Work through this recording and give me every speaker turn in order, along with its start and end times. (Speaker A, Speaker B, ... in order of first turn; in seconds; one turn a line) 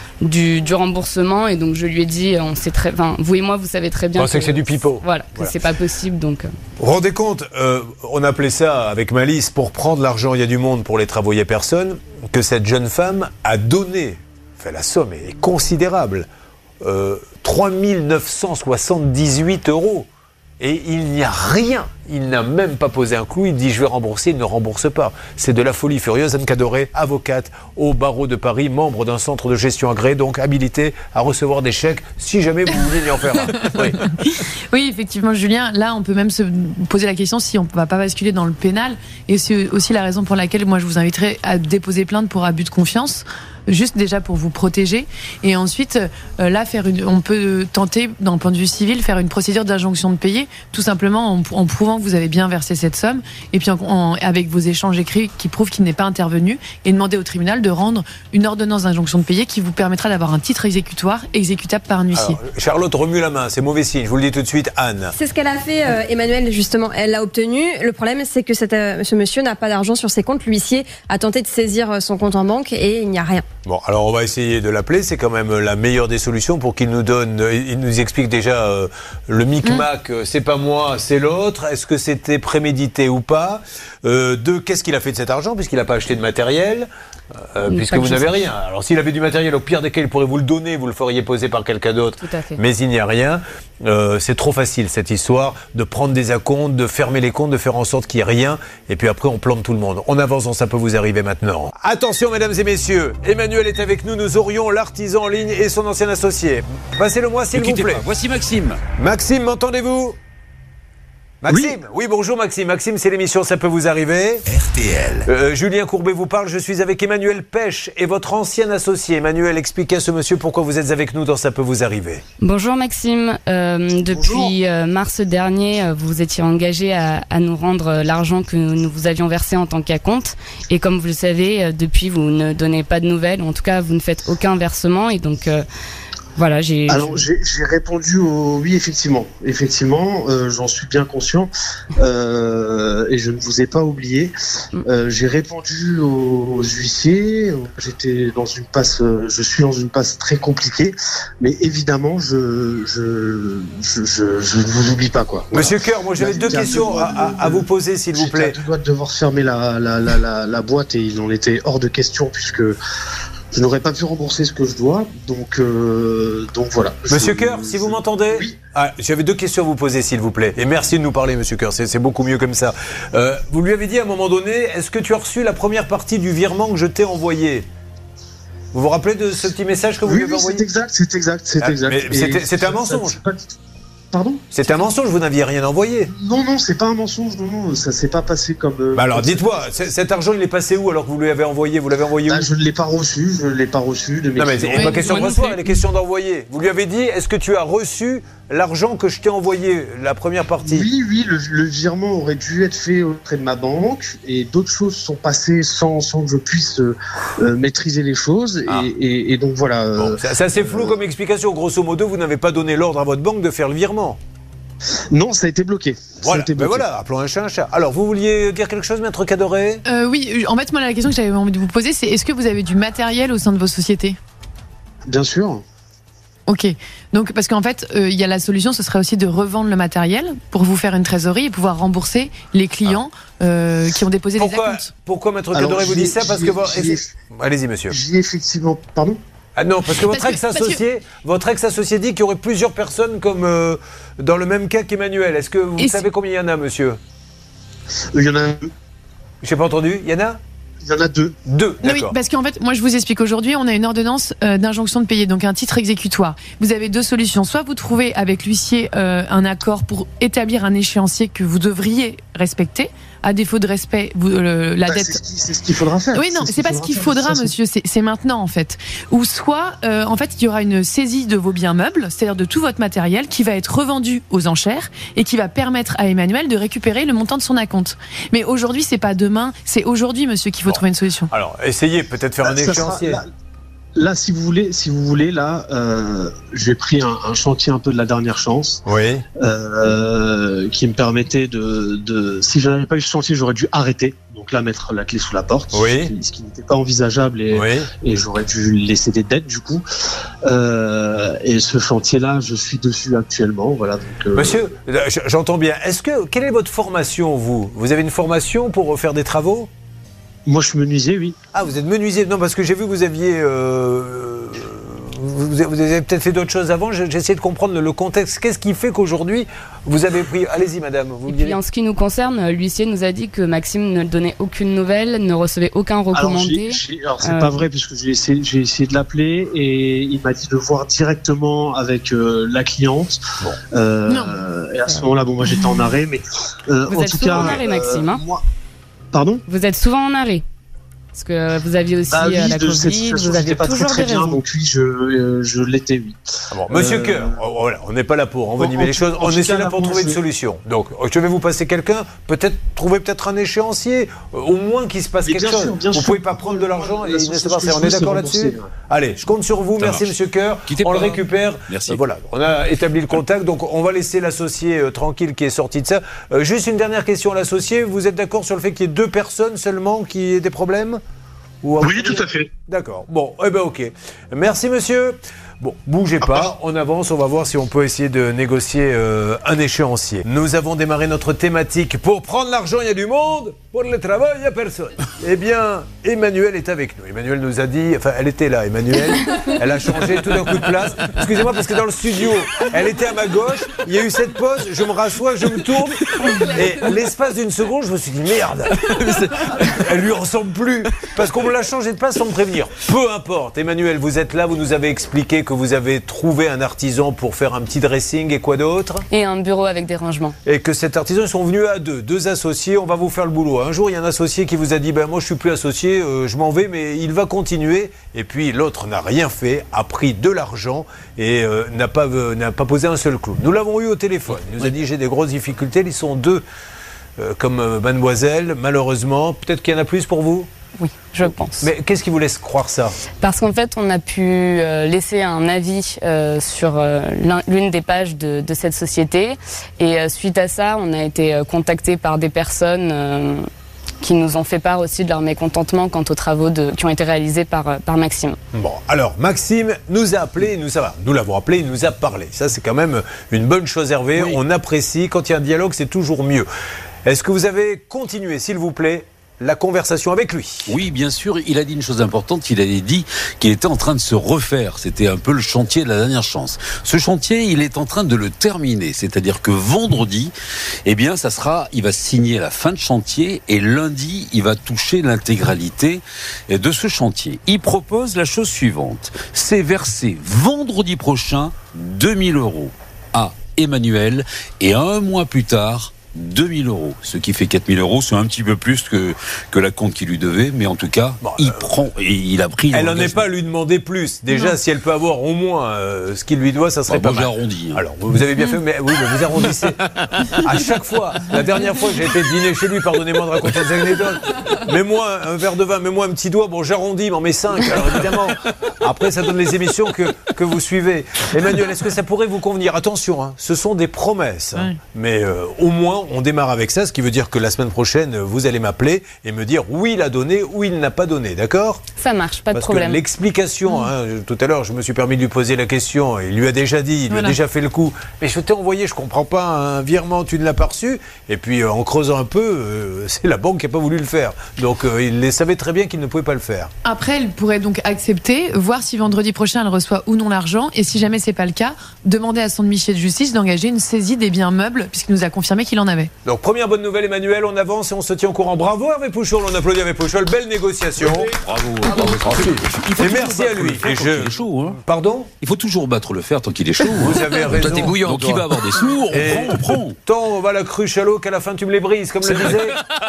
Speaker A: 0.2-6.5
Speaker B: 4.2-5.5
Speaker B: 6.8-16.3
Speaker B: 16.8-20.1
Speaker B: 20.6-34.0
Speaker C: 34.7-62.4
Speaker B: 62.1-65.2
Speaker D: 65.2-73.4
Speaker B: 73.7-86.9
Speaker B: 87.5-108.0
Speaker A: 87.6-88.5
Speaker A: 92.2-92.6
Speaker E: 107.5-108.8
Speaker B: 109.0-110.2
Speaker B: 111.4-114.4
Speaker E: 111.5-111.7
Speaker E: 114.5-115.3
Speaker B: 115.2-122.2
Speaker A: 122.4-135.6
Speaker F: 124.1-124.5
Speaker A: 136.4-137.2
Speaker F: 136.9-144.3
Speaker F: 144.8-162.8
Speaker B: 155.5-158.6
Speaker F: 163.5-168.6
Speaker B: 167.1-177.7
Speaker B: 178.7-180.7
Speaker F: 180.0-183.6
Speaker B: 181.6-183.2
Speaker F: 184.1-184.5
Speaker B: 184.5-186.1
Speaker F: 186.1-189.9
Speaker B: 188.9-192.5
Speaker F: 192.3-195.0
Speaker B: 194.4-200.9
Speaker C: 194.7-195.4
Speaker A: 195.1-195.8
Speaker F: 200.7-211.0
Speaker B: 210.0-214.2
Speaker F: 215.1-216.9
Speaker B: 216.2-219.8
Speaker C: 219.8-224.2
Speaker F: 225.1-225.6
Speaker C: 226.5-234.9
Speaker B: 234.4-238.0
Speaker F: 235.5-237.1
Speaker F: 237.9-239.2
Speaker B: 239.6-247.0
Speaker C: 239.9-240.8
Speaker C: 245.8-246.1
Speaker F: 248.1-248.7
Speaker B: 249.4-250.4
Speaker F: 250.8-251.3
Speaker B: 251.5-252.2
Speaker C: 251.8-265.2
Speaker F: 264.9-267.5
Speaker C: 266.1-281.3
Speaker B: 280.7-283.2
Speaker F: 282.4-283.2
Speaker F: 284.0-288.8
Speaker B: 288.9-289.2
Speaker F: 289.4-299.8
Speaker B: 295.7-296.1
Speaker B: 297.5-297.9
Speaker F: 300.4-304.6
Speaker B: 304.3-309.7
Speaker F: 310.5-311.4
Speaker B: 311.5-321.6
Speaker A: 321.3-327.6
Speaker F: 326.1-333.2
Speaker F: 333.7-338.4
Speaker C: 334.1-334.4
Speaker C: 335.4-335.9
Speaker A: 336.9-338.2
Speaker B: 337.3-337.6
Speaker F: 339.1-339.4
Speaker A: 339.5-340.4
Speaker A: 341.1-344.4
Speaker F: 342.1-346.2
Speaker B: 346.5-371.0
Speaker F: 346.7-347.4
Speaker F: 348.6-350.2
Speaker F: 355.3-358.7
Speaker E: 359.8-360.1
Speaker E: 360.7-362.0
Speaker B: 371.6-409.0
Speaker F: 371.8-372.5
Speaker F: 376.2-376.5
Speaker A: 409.1-410.4
Speaker B: 410.4-426.4
Speaker B: 427.2-430.5
Speaker A: 430.8-431.7
Speaker B: 431.5-433.0
Speaker A: 433.2-443.4
Speaker A: 444.0-448.4
Speaker B: 448.5-456.5
Speaker B: 457.1-460.8
Speaker E: 460.7-470.3
Speaker E: 470.9-493.3
Speaker B: 491.2-491.6
Speaker B: 492.7-521.8
Speaker E: 496.9-497.8
Speaker A: 522.0-523.0
Speaker B: 522.5-536.7
Speaker C: 527.1-527.4
Speaker C: 536.8-546.1
Speaker B: 546.2-551.3
Speaker E: 551.0-554.8
Speaker B: 552.0-555.3
Speaker E: 555.4-560.0
Speaker B: 557.0-558.5
Speaker B: 559.1-562.8
Speaker E: 562.3-562.6